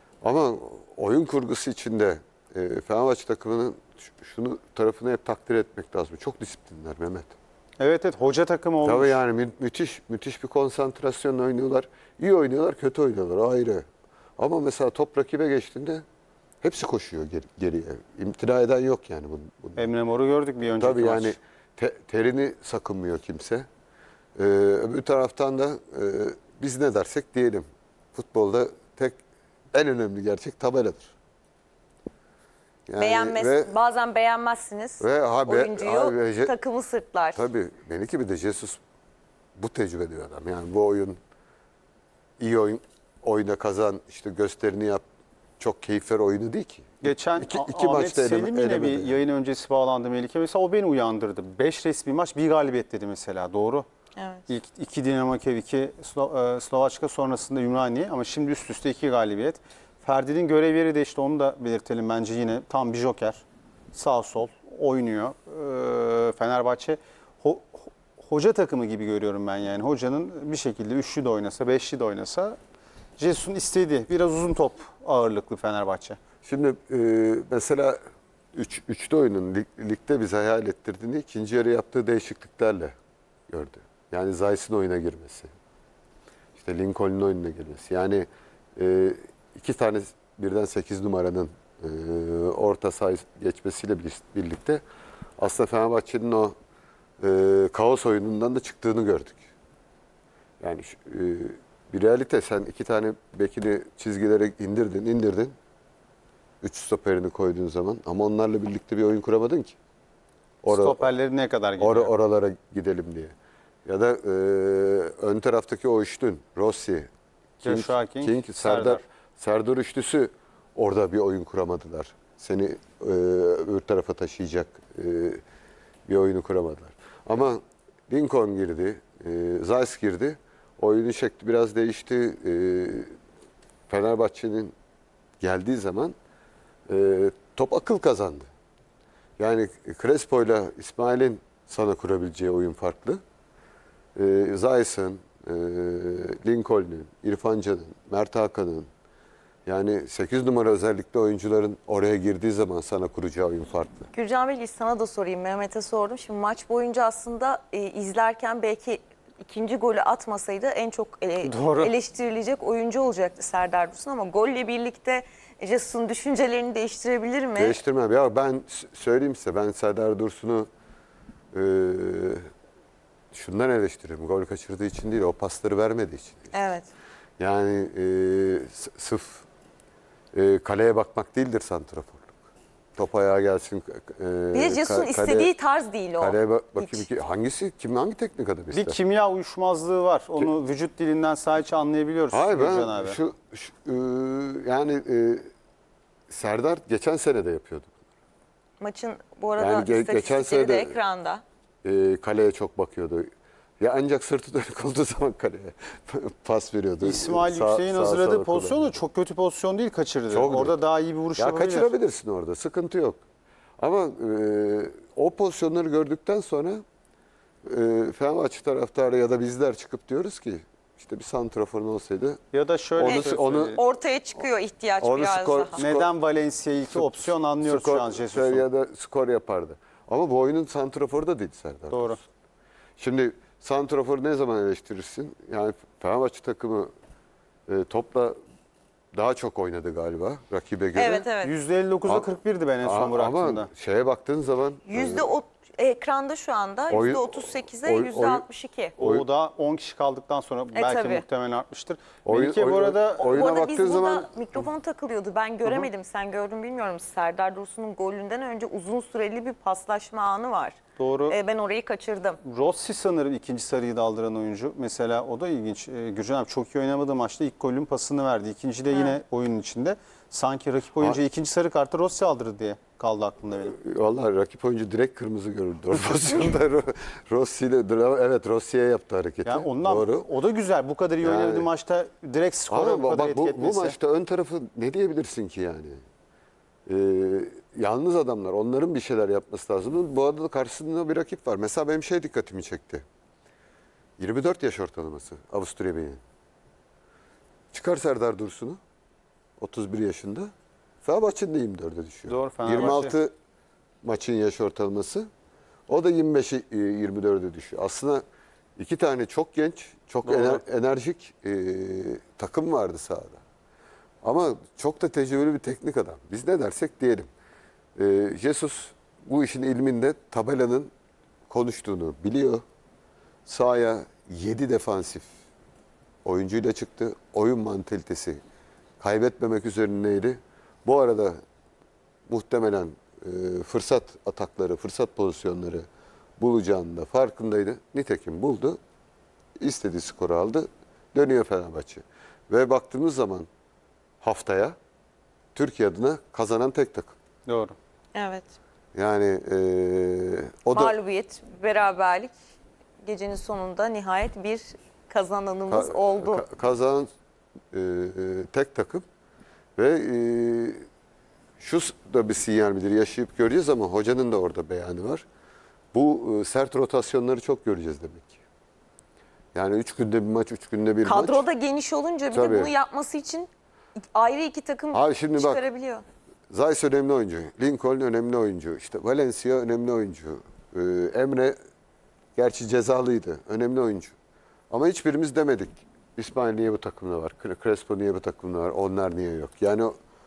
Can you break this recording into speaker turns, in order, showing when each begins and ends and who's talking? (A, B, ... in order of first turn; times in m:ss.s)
0:00.2-0:07.3 A
0:07.8-0:09.2 B
0:08.8-0:13.8 A
0:14.4-0:16.0 A
0:16.6-0:19.9 A
0:19.8-0:21.4 B
0:20.8-0:23.6 A
0:24.4-0:29.2 A
0:29.7-0:31.1 A
0:32.9-0:33.7 A
0:33.0-0:37.4 C
0:35.0-0:36.5 A
0:37.3-0:38.8 A
0:39.6-0:41.2 A
0:42.4-0:45.0 A
0:45.6-0:49.2 A
0:47.0-0:53.8 B
0:54.2-0:54.5 C
0:54.5-1:12.6 B
1:13.2-1:16.2 B
1:16.4-1:18.0 A
1:18.5-1:22.9 A
1:23.5-1:25.5 A
1:26.6-1:34.8 A
1:35.4-1:36.5 A
1:37.2-1:39.4 A
1:40.6-1:45.5 A
1:46.6-1:49.8 A
1:50.6-1:51.0 A
1:50.7-1:52.1 B
1:51.8-1:53.3 A
1:53.8-1:57.1 A
1:57.6-1:59.0 B
1:57.6-2:05.4 A
2:06.1-2:13.1 A
2:13.9-2:14.7 A
2:15.4-2:16.1 A
2:16.9-2:18.5 A
2:19.4-2:23.2 A
2:24.2-2:28.9 A
2:29.6-2:34.1 A
2:34.1-2:47.8 C
2:41.4-2:41.9 B
2:47.5-2:50.7 A
2:51.5-2:52.4 A
2:53.3-2:56.5 A
2:56.5-2:56.9 C
2:57.4-2:59.4 A
3:00.3-3:02.3 A
3:03.0-3:05.5 A
3:04.5-3:07.0 C
3:06.2-3:09.0 A
3:08.7-3:13.2 B
3:12.3-3:15.5 A
3:16.3-3:17.9 A
3:18.8-3:21.4 C
3:19.6-3:21.0 A
3:21.8-3:23.3 A
3:23.8-3:29.0 A
3:27.0-3:31.9 B
3:30.3-3:30.8 A
3:31.4-3:33.2 A
3:33.8-3:36.8 A
3:37.6-3:42.4 A
3:42.5-3:43.8 B
3:43.0-3:43.8 A
3:43.0-3:45.8 C
3:45.0-3:46.1 A
3:45.8-3:48.7 B
3:46.9-3:52.2 A
3:51.9-3:52.2 B
3:53.0-3:56.9 A
3:57.7-3:58.3 A
3:59.1-4:01.3 A
4:00.9-4:01.5 C
4:01.4-4:03.7 B
4:02.0-4:02.3 A
4:02.8-4:05.3 A
4:04.9-4:09.0 C
4:06.9-4:08.4 A
4:09.0-4:13.5 B
4:09.0-4:09.2 A
4:10.7-4:11.2 C
4:12.2-4:14.6 A
4:13.2-4:22.4 C
4:21.0-4:21.4 B
4:22.4-4:33.8 B
4:28.9-4:29.2 C
4:33.5-4:40.3 A
4:39.4-4:44.0 B
4:41.2-4:41.7 A
4:42.7-4:46.0 A
4:46.9-4:53.0 A
4:54.2-4:56.2 A
4:57.7-4:58.8 A
4:59.6-5:00.5 A
5:01.0-5:03.3 A
5:02.3-5:03.1 B
5:04.0-5:05.2 A
5:05.9-5:08.2 A
5:08.8-5:13.4 A
5:10.2-5:10.6 B
5:14.2-5:17.3 A
5:18.0-5:20.9 A
5:21.5-5:22.6 A
5:23.4-5:25.3 A
5:26.2-5:28.4 A
5:29.0-5:31.4 A
5:32.3-5:35.8 A
5:36.4-5:38.8 A
5:39.6-5:43.5 A
5:44.2-5:44.8 A
5:45.5-5:47.2 A
5:47.5-5:47.8 B
5:48.1-5:48.5 C
5:48.9-5:50.9 A
5:50.7-5:52.3 C
5:53.0-5:56.4 C
5:55.7-5:57.1 A
5:57.7-5:59.0 A
5:59.8-6:00.8 A
6:01.6-6:05.2 A
6:05.9-6:08.4 A
6:09.5-6:11.4 A
6:11.0-6:16.0 C
6:12.3-6:12.7 A
6:14.9-6:15.6 A
6:16.5-6:21.6 A
6:22.4-6:24.1 A
6:24.7-6:29.9 A